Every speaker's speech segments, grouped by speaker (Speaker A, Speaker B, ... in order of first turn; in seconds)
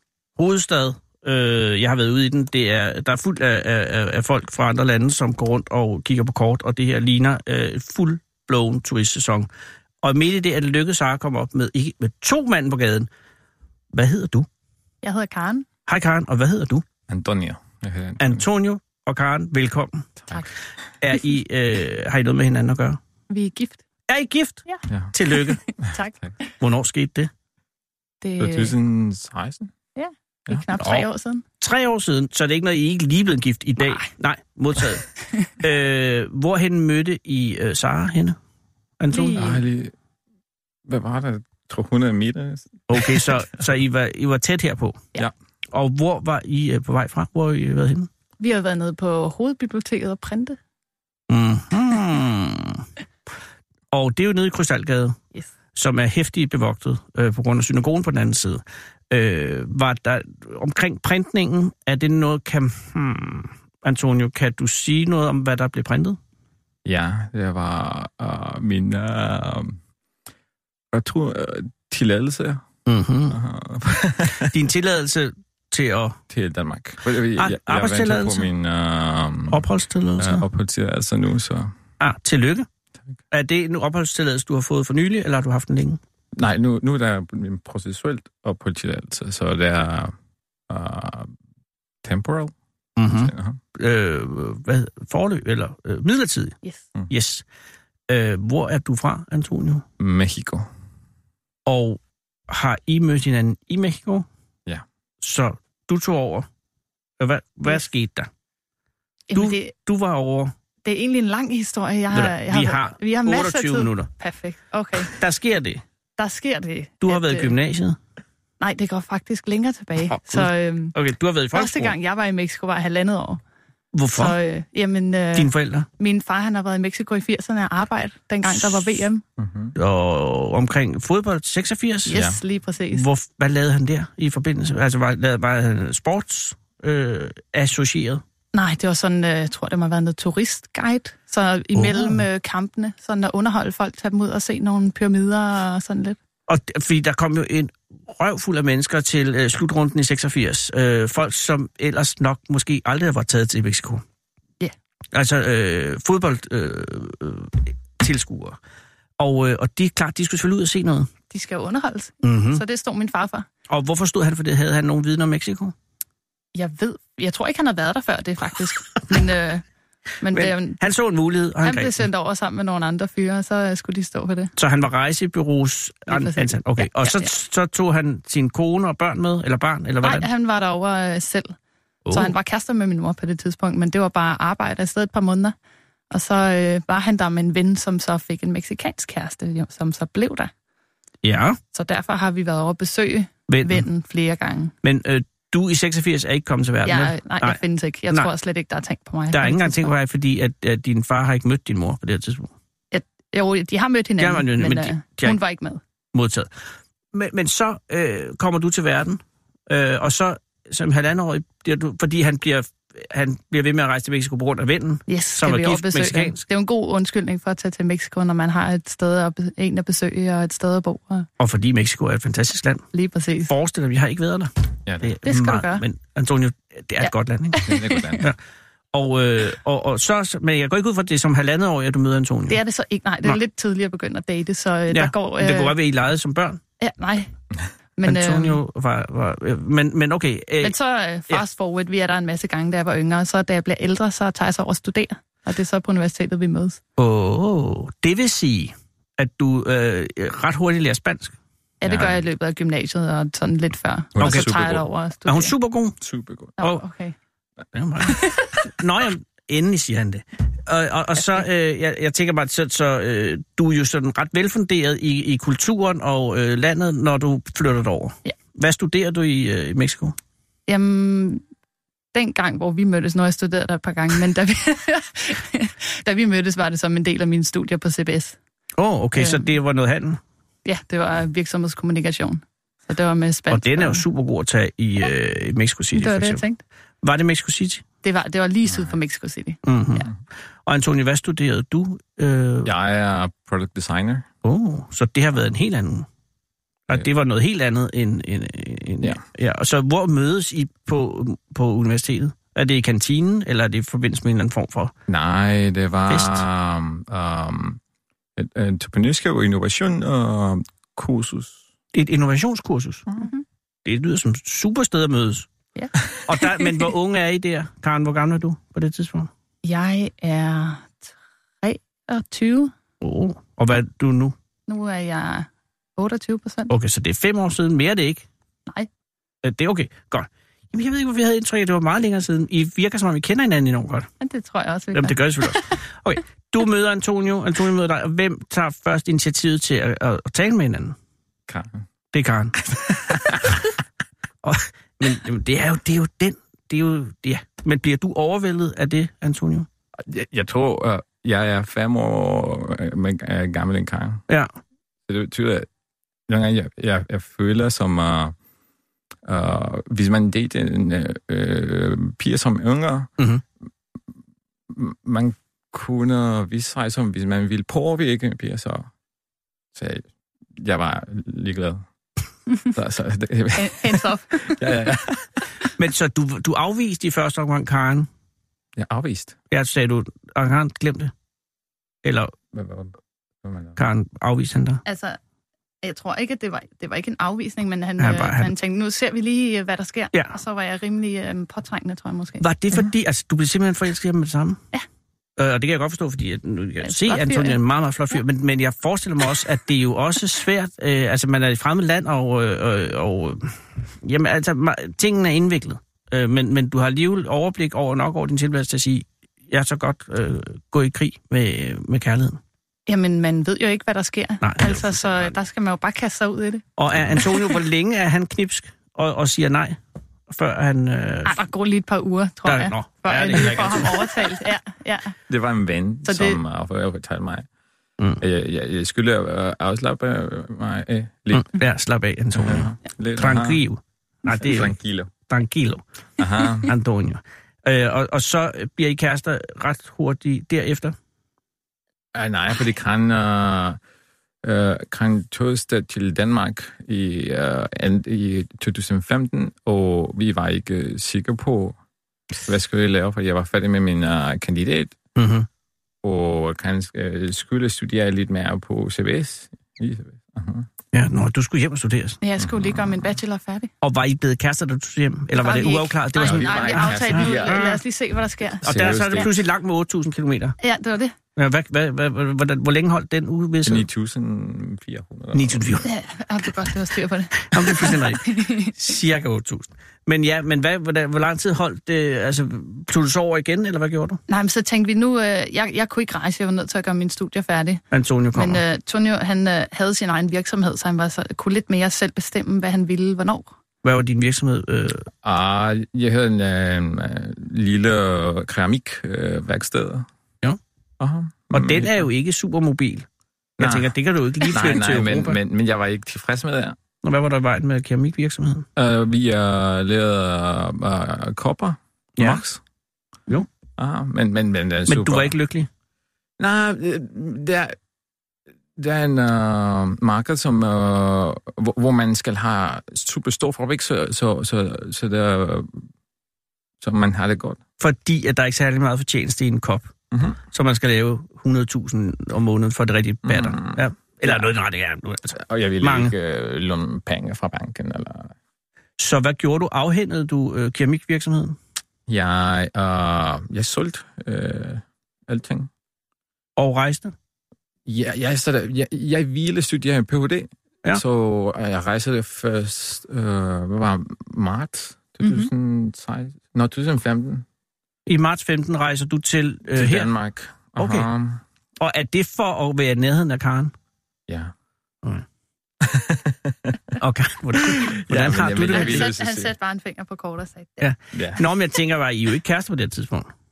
Speaker A: 0.4-9.5, 10.0-13.1, 13.9-14.5, 15.9-16.8, 18.2-20.1, 21.0-23.0, 24.1-25.6, 26.6-27.3, 30.8-31.1, 31.6-35.0, 35.6-38.4, 39.0-39.4, 42.9-45.0, 45.7-48.1, 51.3-52.9, 53.9-55.2, 55.7-66.2, 72.9-73.4, 74.3-76.2, 77.4-78.5, 79.5-80.5, 82.0-82.7, 83.3-86.0, 93.0-96.6, 97.1-97.4, 98.1-99.8, 101.7-104.3, 105.2-106.5, 107.2-108.3, 109.3-110.5, 112.1-114.1, 115.1-115.8, 117.0-118.0, 120.1-122.0, 123.9-124.4, 125.3-125.9, 129.8-132.2, 132.9-138.2, 141.8-142.2, 146.5-154.0, 155.1-158.6, 159.2-161.1, 162.2-162.6, 163.7-165.7, 170.3-172.1, 174.6-180.3, 182.1-182.3, 191.2-191.6, 193.5-193.9, 194.8-198.3, 199.3-202.5, 204.2-205.4, 206.1-206.5, 207.1-216.4, 221.4-222.9, 223.4-228.4, 228.9-232.6, 234.9-236.6, 238.0-240.8, 247.0-251.3, 254.2-254.6, 255.3-256.0, 256.6-256.8, 257.7-270.2, 278.8-280.2, 283.5-286.4, 287.0-287.8, 289.6-290.1, 290.7-292.7, 294.4-296.1, 296.9-304.9, 306.1-306.4, 311.9-313.1, 313.9-315.5, 316.3-319.3, 323.0-324.4, 326.7-328.3, 329.4-334.1, 334.9-341.0, 342.1-342.6, 344.4-349.7, 363.2-363.4, 375.8-378.1, 379.5-381.1, 382.0-382.3, 383.8-384.8, 388.0-388.5, 392.4-394.6, 395.4-412.4, 414.4-415.3, 416.8-421.4, 422.4-424.3, 431.3-434.8, 435.3-435.8, 436.6-441.0, 455.2-455.5, 460.9-462.2, 463.8-467.8, 468.6-470.6, 471.4-473.9, 475.3-475.9, 477.5-484.2, 487.9-488.6, 493.8-495.1, 501.5-503.1, 503.6-505.4, 507.0-508.7, 512.2-512.4, 514.9-515.7, 527.8-529.9, 530.5-536.1, 539.0-541.6, 546.6-547.1, 558.1-560.1, 560.8-561.1, 561.8-563.7, 567.0-569.1, 570.8-573.3
Speaker B: 15.0-15.7, 23.3-23.8, 24.7-26.1, 28.2-28.7, 30.0-31.4, 39.1-39.6, 48.4-50.6, 109.3-109.7, 110.8-115.2, 116.2-117.5, 118.6-121.0, 121.5-123.4, 124.1-129.2, 132.1-133.1, 138.5-146.2, 161.3-163.5, 166.6-169.6, 170.2-170.8, 171.6-174.5, 176.1-177.3, 180.0-181.6, 182.1-185.6, 186.1-190.5, 191.7-194.7, 196.8-199.9, 202.9-205.8, 215.1-221.3, 222.9-223.5, 225.2-225.8, 227.0-228.0, 232.5-235.8, 236.8-237.3, 238.0-238.6, 240.6-246.8, 251.8-255.5, 256.6-257.1, 258.1-258.5, 261.2-261.4, 270.7-271.4, 272.1-278.4, 279.2-279.5, 280.6-284.0, 285.9-286.6, 288.0-290.1, 313.2-313.4, 315.8-316.8, 319.6-321.1, 321.6-322.7, 324.7-326.7, 334.2-335.7, 373.6-374.7, 384.9-385.2, 385.8-392.4, 396.8-397.6, 412.9-416.7, 417.2-417.6, 421.3-425.2, 426.1-426.4, 462.2-463.7, 465.4-469.3, 470.6-471.1, 475.8-478.8, 484.3-487.8, 488.3-493.5, 555.2-555.5, 568.6-570.9
Speaker C: 17.1-18.4, 24.9-25.1, 25.8-26.3, 28.4-29.7, 39.4-39.9, 40.9-43.2, 66.8-69.8, 70.9-72.7, 73.3-74.6, 76.3-79.7, 80.2-81.7, 86.3-90.1, 90.7-91.3, 92.0-92.5, 93.1-93.6, 100.0-100.7, 129.4-129.8, 132.1-132.4, 224.9-225.2, 227.6-228.3, 251.8-252.2, 254.2-254.9, 256.0-256.6, 292.6-294.3, 305.1-307.8, 308.4-311.6, 341.5-341.8, 343.1-343.5, 350.1-354.2, 355.1-355.7, 356.3-358.4, 359.3-363.1, 364.7-368.9, 369.8-370.1, 370.6-371.8, 372.7-375.4, 378.8-379.4, 382.5-382.9, 383.4-383.8, 425.3-427.5, 428.2-431.5, 432.4-433.6, 434.3-435.1, 436.2-436.7, 442.1-443.8, 444.4-451.8, 452.4-455.0, 456.0-460.7, 462.4-463.1, 466.2-467.7, 468.6-469.3, 473.6-475.9, 495.2-500.1, 501.0-502.1, 503.6-506.8, 508.8-512.6, 513.8-515.3, 516.4-517.8, 518.8-525.9, 526.8-527.6, 530.1-530.4, 533.2-534.5, 535.3-538.3, 542.1-545.7, 547.9-557.5, 559.7-561.4, 564.3-564.5, 565.8-567.0, 567.6-569.5, 571.1-571.4